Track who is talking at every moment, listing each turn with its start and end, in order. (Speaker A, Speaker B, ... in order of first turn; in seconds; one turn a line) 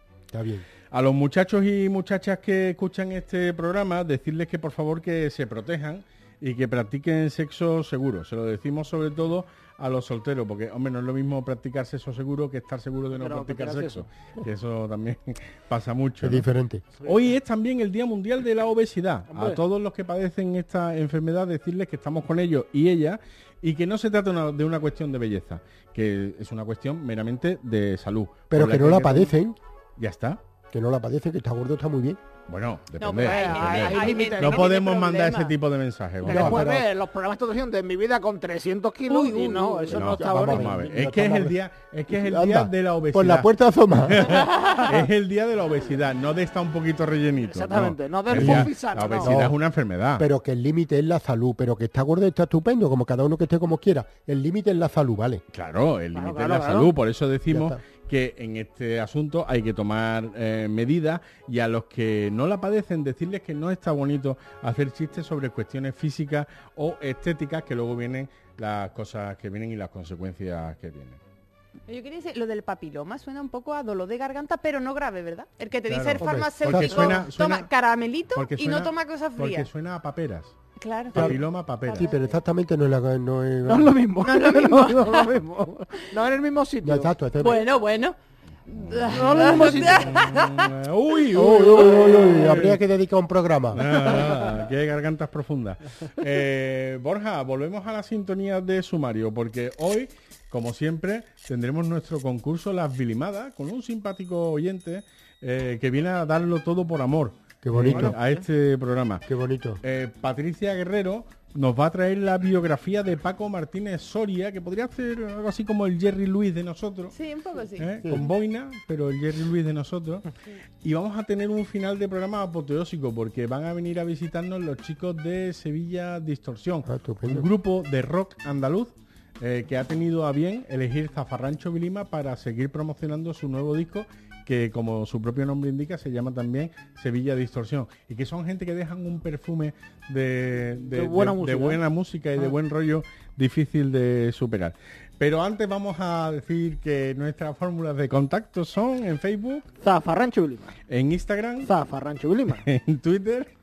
Speaker A: 0.3-0.7
Speaker B: 0.9-16.4
Speaker C: 13.1-14.1
Speaker A: 16.2-16.8
Speaker B: 17.0-29.3
Speaker C: 19.3-19.6
Speaker A: 28.5-29.6
Speaker B: 30.0-30.4
Speaker A: 30.7-32.2
Speaker B: 32.5-36.7
Speaker D: 33.0-35.6
Speaker C: 33.2-34.8
Speaker C: 36.2-40.8
Speaker A: 36.2-36.9
Speaker D: 39.1-39.9
Speaker B: 39.9-50.3
Speaker A: 39.9-44.5
Speaker D: 44.6-44.9
Speaker C: 47.5-49.4
Speaker A: 48.3-49.5
Speaker A: 50.2-55.4
Speaker B: 55.5-71.2
Speaker C: 56.1-56.9
Speaker A: 57.5-57.8
Speaker D: 71.9-79.7
Speaker B: 75.9-77.7
Speaker A: 76.2-77.2
Speaker B: 78.3-80.5
Speaker D: 80.8-81.3
Speaker B: 81.1-82.0
Speaker A: 81.1-84.0
Speaker D: 81.9-82.2
Speaker C: 83.7-87.1
Speaker D: 84.2-85.3
Speaker A: 86.8-87.6
Speaker D: 87.4-88.2
Speaker D: 88.7-90.7
Speaker C: 89.1-90.2
Speaker B: 89.9-92.8
Speaker A: 91.3-94.2
Speaker B: 93.7-109.2
Speaker C: 93.9-94.5
Speaker A: 107.6-108.2
Speaker C: 107.9-108.3
Speaker A: 109.3-109.8
Speaker B: 109.8-117.1
Speaker D: 117.1-117.8
Speaker B: 117.8-120.2
Speaker B: 120.8-149.7
Speaker A: 126.8-127.5
Speaker C: 140.9-141.8
Speaker C: 149.8-150.7
Speaker B: 150.9-151.7
Speaker C: 151.7-152.6
Speaker B: 152.6-153.5